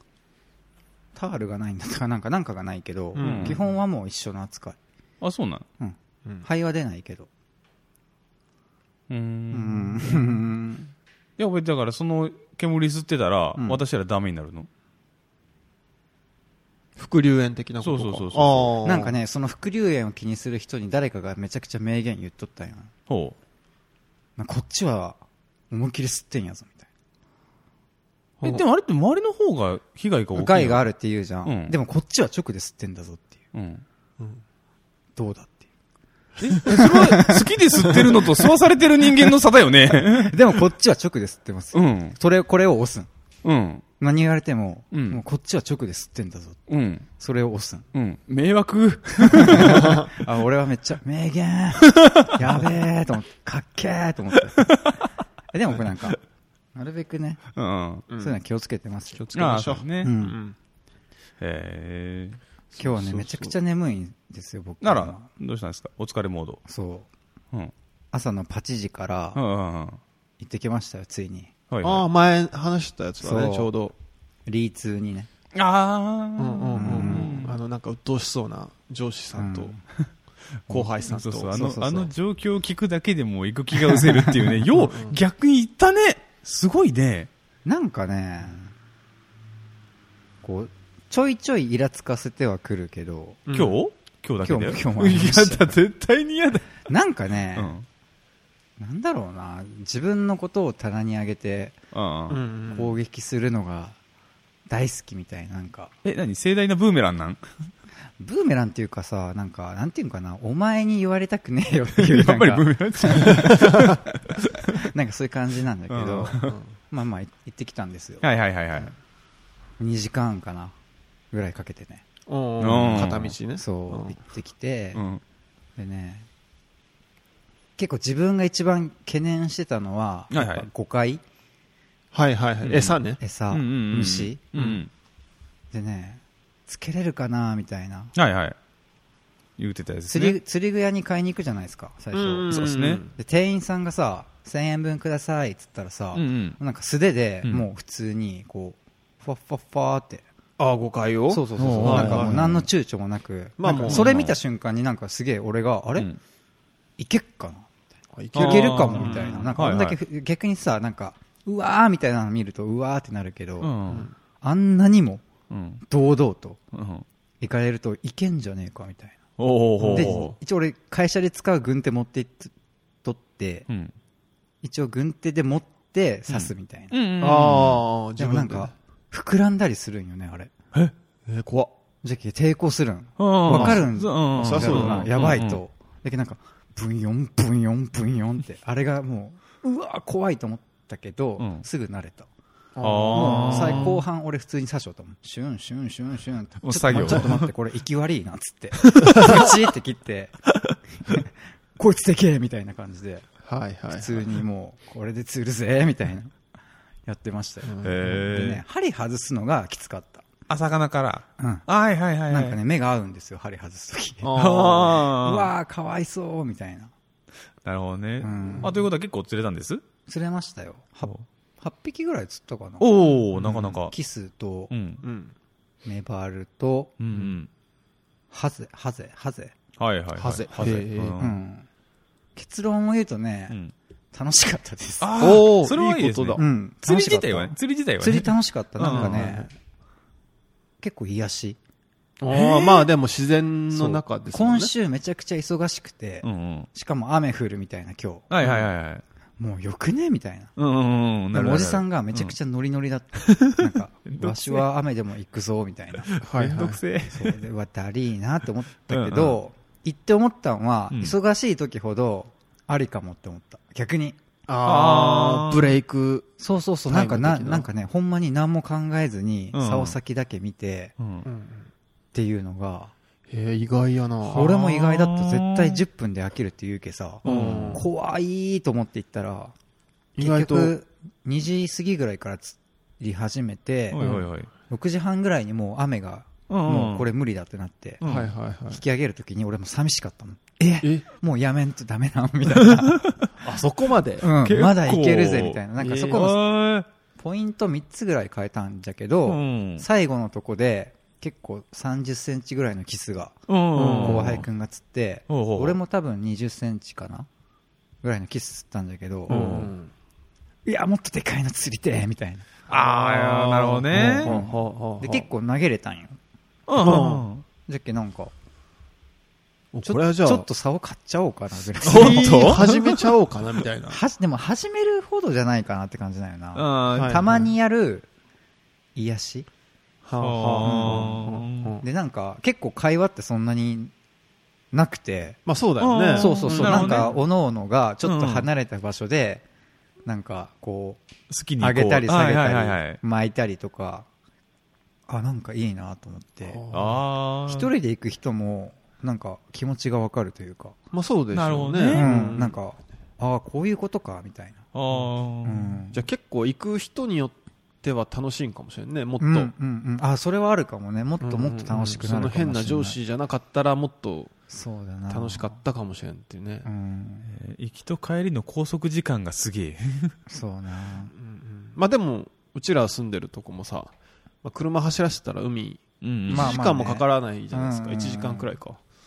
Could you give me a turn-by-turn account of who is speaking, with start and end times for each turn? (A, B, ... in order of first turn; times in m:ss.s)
0:01.1-0:04.8 A
0:03.1-0:03.7 B
0:03.2-0:03.6 C
0:05.2-0:05.6 C
0:05.8-0:07.3 A
0:09.1-0:10.4 C
0:09.5-0:10.9 A
0:11.4-0:14.7 C
0:13.6-0:13.8 A
0:17.0-0:19.2 B
0:17.8-0:18.8 C
0:18.8-0:22.9 A
0:23.1-0:23.4 C
0:24.4-0:25.2 A
0:25.7-0:26.8 A
0:28.4-0:30.8 C
0:30.3-0:33.4 A
0:31.4-0:31.7 C
0:33.5-0:33.8 C
0:35.2-0:35.6 A
0:36.4-0:40.7 C
0:36.6-0:38.2 A
0:37.9-0:38.2 B
0:39.9-0:43.1 A
0:41.7-0:42.2 C
0:43.4-0:43.8 C
0:44.0-0:46.6 A
0:44.9-0:45.2 C
0:46.7-0:47.1 C
0:47.2-0:47.8 A
0:47.9-0:50.1 C
0:49.3-0:54.7 A
0:52.0-0:52.3 C
0:54.6-0:55.0 C
0:55.5-0:56.2 A
0:56.7-0:57.4 A
0:57.5-0:58.0 C
0:58.1-0:58.4 B
0:58.2-0:59.2 A
0:59.1-1:00.6 B
0:59.3-1:00.1 C
1:00.0-1:00.4 A
1:01.4-1:02.4 C
1:02.7-1:03.5 B
1:02.8-1:05.2 A
1:04.8-1:06.6 C
1:06.6-1:07.1 A
1:08.1-1:09.4 A
1:09.3-1:10.0 C
1:10.4-1:11.5 A
1:11.7-1:12.0 C
1:11.8-1:13.9 B
1:13.2-1:13.7 A
1:14.5-1:15.3 A
1:15.5-1:17.6 C
1:16.4-1:19.7 B
1:16.7-1:17.4 A
1:19.3-1:19.8 A
1:20.7-1:27.3 C
1:20.7-1:21.8 B
1:21.5-1:22.1 A
1:24.7-1:25.2 B
1:27.6-1:28.7 A
1:30.4-1:33.4 A
1:33.5-1:33.8 B
1:33.5-1:36.9 C
1:34.4-1:35.8 A
1:36.9-1:37.7 A
1:37.6-1:37.8 C
1:38.8-1:41.8 A
1:41.9-1:42.4 C
1:42.3-1:42.9 B
1:42.7-1:44.0 A
1:44.7-1:45.9 A
1:46.0-1:47.4 C
1:48.2-1:53.9 A
1:52.0-1:54.8 C
1:53.5-1:54.0 B
1:54.7-1:58.2 A
1:55.9-1:56.6 C
1:56.4-1:56.7 B
1:58.2-1:58.9 C
1:59.8-2:00.7 A
2:01.3-2:02.0 A
2:02.3-2:04.2 B
2:02.6-2:03.4 C
2:03.5-2:05.0 A
2:04.9-2:05.2 C
2:05.8-2:06.3 A
2:07.8-2:11.2 A
2:10.3-2:10.7 C
2:12.1-2:13.2 B
2:12.8-2:14.4 A
2:13.5-2:14.9 C
2:14.5-2:14.8 B
2:15.7-2:18.1 A
2:18.2-2:18.6 C
2:19.6-2:20.4 C
2:20.1-2:22.6 A
2:22.1-2:23.1 B
2:22.5-2:23.0 C
2:23.1-2:30.2 A
2:26.1-2:26.6 C
2:30.6-2:32.6 B
2:31.3-2:36.1 A
2:31.6-2:32.5 C
2:33.6-2:34.2 B
2:33.7-2:34.4 C
2:37.0-2:37.7 A
2:38.1-2:39.7 B
2:38.3-2:40.0 C
2:38.3-2:43.7 A
2:43.6-2:44.1 C
2:43.9-2:44.1 B
2:44.4-2:45.2 A
2:45.5-2:45.8 C
2:45.9-2:46.6 A
2:46.7-2:47.0 C
2:47.4-2:49.2 A
2:49.4-2:50.3 C
2:49.8-2:50.3 B
2:49.9-2:52.5 A
2:53.0-2:53.7 A
2:54.6-2:57.0 A
2:56.3-2:57.8 C
2:57.2-2:58.7 B
2:58.2-3:00.5 A
3:01.2-3:01.7 B
3:02.0-3:12.3 A
3:03.2-3:05.6 C
3:03.4-3:05.3 B
3:11.4-3:11.6 C
3:12.7-3:14.0 B
3:12.8-3:14.0 C
3:13.1-3:20.4 A
3:16.6-3:17.5 C
3:18.9-3:19.5 C
3:21.0-3:23.2 A
3:23.4-3:24.3 B
3:23.9-3:26.3 A
3:27.0-3:30.2 A
3:27.6-3:28.5 B
3:27.8-3:28.6 C
3:30.5-3:32.6 C
3:31.4-3:31.6 A
3:32.3-3:34.4 A
3:34.2-3:35.1 B
3:34.3-3:35.5 C
3:34.9-3:36.9 A
3:37.6-3:39.8 C
3:38.2-3:38.8 A
3:38.4-3:38.7 B
3:40.1-3:42.9 A
3:42.8-3:43.9 C
3:43.3-3:43.8 B
3:43.8-3:44.7 A
3:44.7-3:45.0 C
3:45.0-3:45.3 B
3:45.8-3:46.9 A
3:47.0-3:47.5 C
3:48.3-3:49.5 A
3:49.8-3:51.4 C
3:50.2-3:51.2 B
3:51.2-3:51.7 A
3:52.4-3:53.6 A
3:54.1-3:55.3 A
3:55.0-3:59.4 C
3:55.2-3:56.4 B
3:56.4-3:59.5 A
3:58.8-3:59.5 B
4:00.8-4:01.6 A
4:02.2-4:04.7 B
4:02.3-4:02.9 C
4:03.8-4:08.3 A
4:06.2-4:06.7 C
4:08.3-4:09.0 C
4:08.4-4:08.7 B
4:09.4-4:10.5 A
4:10.6-4:12.3 C
4:11.3-4:16.1 A
4:13.2-4:14.6 C
4:16.1-4:17.4 C
4:16.2-4:16.8 B
4:17.1-4:24.2 A
4:18.9-4:19.4 C
4:24.5-4:26.3 B
4:24.6-4:25.8 C
4:26.4-4:30.9 A
4:26.9-4:27.7 B
4:29.5-4:30.0 C
4:31.0-4:31.3 C
4:31.2-4:31.7 B
4:32.1-4:32.9 A
4:33.3-4:34.5 B
4:34.3-4:39.5 A
4:34.3-4:35.8 C
4:37.2-4:37.8 C
4:37.2-4:37.8 B
4:40.2-4:40.7 B
4:40.2-4:44.0 A
4:43.9-4:44.5 C
4:44.0-4:44.3 B
4:44.7-4:48.0 A
4:46.5-4:47.1 C
4:48.0-4:48.3 C
4:48.0-4:48.8 B
4:48.7-4:53.0 A
4:52.6-4:53.3 C
4:53.4-4:54.3 B
4:54.2-4:56.4 A
4:54.2-4:56.9 C
4:55.8-4:56.3 B
4:57.2-5:03.4 A
4:59.2-4:59.8 C
5:03.5-5:04.5 C
5:03.7-5:04.4 B
5:03.9-5:07.3 A
5:05.3-5:05.8 C
5:08.0-5:09.6 A
5:09.3-5:09.9 B
5:09.3-5:09.7 C
5:10.6-5:12.5 A
5:12.7-5:14.4 C
5:12.7-5:15.2 B
5:14.2-5:16.2 A
5:16.7-5:17.4 C
5:16.8-5:17.3 B
5:17.7-5:18.3 A
5:19.7-5:20.5 B
5:19.8-5:22.6 A
5:21.8-5:23.1 C
5:21.8-5:24.0 B
5:23.9-5:28.1 A
5:26.5-5:27.3 C
5:26.9-5:27.5 B
5:28.9-5:29.5 A
5:30.0-5:31.8 B
5:30.2-5:31.8 C
5:30.6-5:31.2 A
5:31.8-5:33.9 A
5:34.7-5:35.4 A
5:35.4-5:37.2 B
5:35.8-5:37.2 C
5:36.1-5:39.4 A
5:38.0-5:38.5 C
5:40.0-5:41.0 A
5:41.3-5:43.0 C
5:41.6-5:44.0 A
5:45.1-5:46.6 A
5:46.4-5:47.0 B
5:46.7-5:47.7 C
5:47.5-5:50.8 A
5:50.9-5:52.6 B
5:51.3-5:52.1 C
5:51.9-5:54.6 A
5:54.7-5:55.8 C
5:55.4-5:56.0 A
5:55.9-5:59.5 B
5:59.2-6:03.0 A
6:01.2-6:04.3 B
6:04.5-6:05.6 A
6:05.1-6:06.7 B
6:06.6-6:07.3 A
6:07.2-6:10.2 C
6:10.3-6:11.1 A
6:11.1-6:13.9 B
6:14.4-6:18.8 B
6:16.0-6:16.6 C
6:16.3-6:18.5 A